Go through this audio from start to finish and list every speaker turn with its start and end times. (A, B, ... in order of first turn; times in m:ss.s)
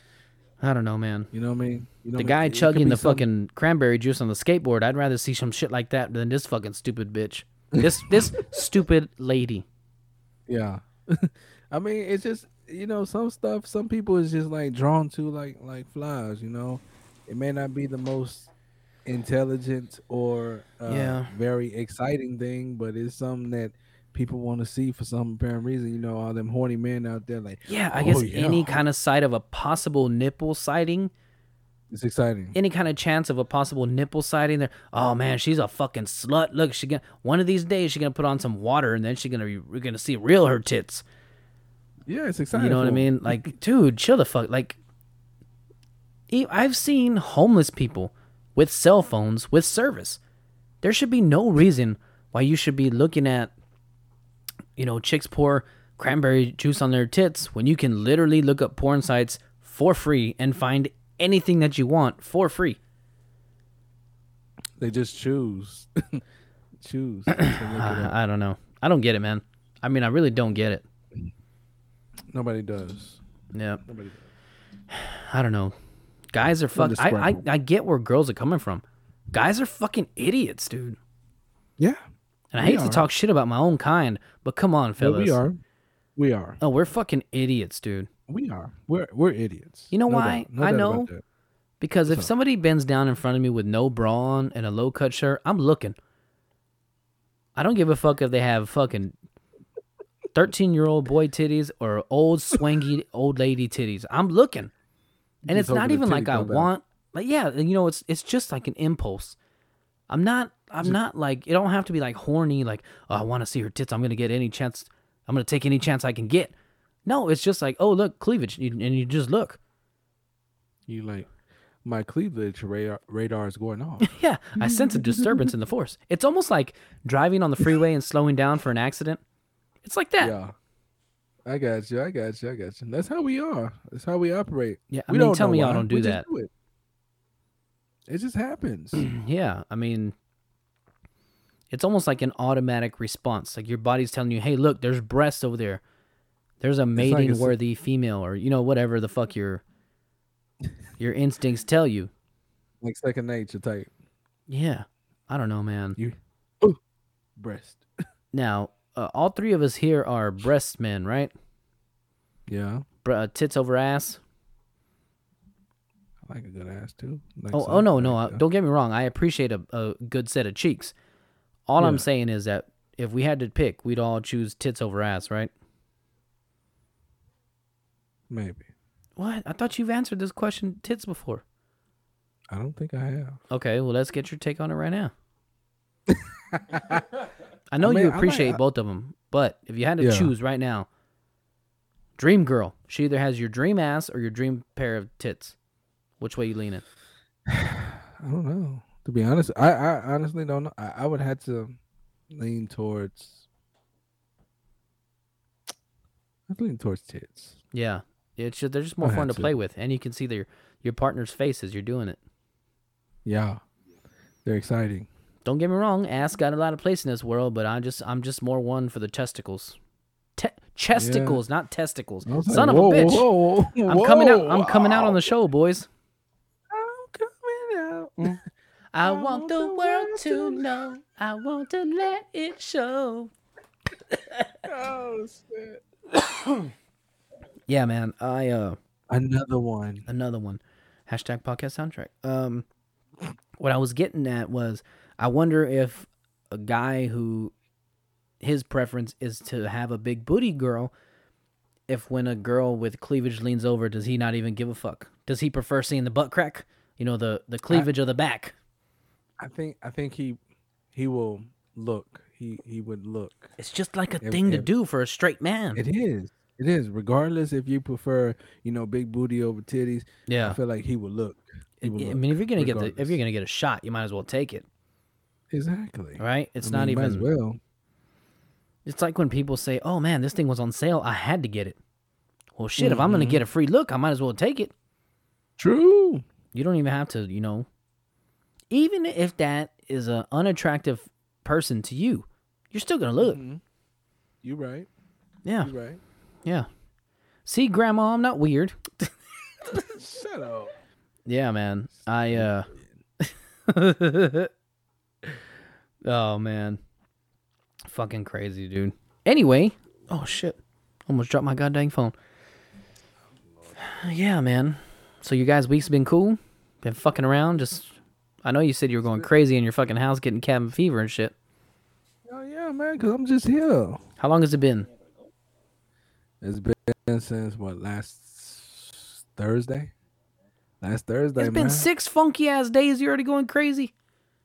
0:00.6-0:01.3 A
0:01.3-0:03.2 B
0:02.2-0:09.6 A
0:07.7-0:08.6 B
0:10.5-0:18.5 B
0:19.0-0:28.8 B
0:20.8-0:21.3 A
0:27.7-0:31.1 A
0:31.9-0:32.5 B
0:32.5-0:41.0 A
0:42.1-0:43.5 B
0:42.5-0:44.8 A
0:46.3-0:50.2 A
0:50.8-0:53.5 A
0:54.8-1:02.8 A
1:04.8-1:06.2 B
1:06.8-1:08.1 B
1:07.3-1:10.8 A
1:12.3-1:13.2 B
1:13.5-1:13.8 A
1:13.8-1:14.2 B
1:14.9-1:15.7 A
1:16.3-1:21.0 A
1:16.7-1:17.4 B
1:22.5-1:25.4 A
1:22.6-1:23.1 B
1:25.0-1:25.6 B
1:26.2-1:26.6 B
1:26.6-1:28.1 A
1:28.3-1:31.2 B
1:29.9-1:31.1 A
1:31.8-1:36.0 A
1:37.6-1:39.1 A
1:40.3-1:44.7 A
1:45.4-1:46.7 B
1:45.5-1:49.4 A
1:50.1-1:56.5 A
1:57.0-1:59.6 A
2:00.9-2:01.3 B
2:01.8-2:05.5 B
2:04.0-2:09.2 A
2:09.8-2:10.3 A
2:10.2-2:10.5 B
2:11.4-2:16.5 B
2:14.9-2:16.2 A
2:18.1-2:19.1 B
2:18.9-2:20.1 A
2:21.7-2:25.8 A
2:26.6-2:29.6 A
2:27.0-2:27.6 B
2:31.0-2:32.1 A
2:32.8-2:33.9 B
2:34.5-2:36.0 A
2:36.0-2:36.8 B
2:37.4-2:37.9 B
2:38.3-2:41.3 A
2:42.5-2:42.8 B
2:43.0-2:44.2 A
2:46.2-2:48.4 B
2:47.5-2:50.9 A
2:51.7-2:55.5 A
2:51.8-2:52.0 B
2:58.3-2:58.7 B
2:59.2-3:01.4 A
3:02.5-3:03.4 B
3:03.5-3:05.1 A
3:06.1-3:07.1 B
3:07.7-3:10.9 A
3:07.8-3:08.6 B
3:10.0-3:10.3 B
3:12.2-3:15.6 A
3:16.2-3:16.8 A
3:17.5-3:21.8 B
3:22.3-3:23.4 B
3:26.5-3:27.6 B
3:27.7-3:32.2 A
3:29.0-3:29.5 B
3:33.2-3:33.6 B
3:34.4-3:35.1 B
3:35.4-3:39.8 A
3:40.4-3:43.3 A
3:40.9-3:41.4 B
3:42.2-3:45.2 B
3:43.8-3:45.9 A
3:46.7-3:48.4 B
3:48.9-3:53.3 A
3:49.0-3:50.7 B
3:54.1-3:54.5 A
3:54.6-3:55.8 B
3:57.7-3:58.8 A
3:59.1-4:00.1 B
4:00.1-4:02.6 A
4:03.6-4:07.5 A
4:08.4-4:10.9 A
4:11.9-4:18.5 A
4:19.4-4:20.4 B
4:20.9-4:23.5 B
4:23.6-4:25.8 A
4:24.2-4:24.7 B
4:25.7-4:33.2 B
4:30.3-4:30.6 A
4:31.8-4:34.6 A
4:35.5-4:37.6 B
4:36.2-4:37.3 A
4:38.8-4:41.8 A
4:42.6-4:44.7 A
4:42.8-4:43.4 B
4:45.6-4:46.2 B
4:46.5-4:47.7 A
4:48.7-4:53.4 A
4:53.2-4:53.6 B
4:54.4-4:54.9 B
4:55.4-4:55.7 A
4:55.6-4:56.0 B
4:57.4-4:59.1 A
4:59.7-5:00.7 B
5:01.3-5:02.7 A
5:02.3-5:02.9 B
5:03.2-5:04.5 A
5:06.0-5:06.8 A
5:07.8-5:12.1 A
5:13.8-5:17.9 A
5:18.4-5:21.3 A
5:22.2-5:24.0 B
5:24.2-5:24.9 A
5:26.4-5:29.9 B
5:30.8-5:31.9 B
5:31.4-5:33.9 A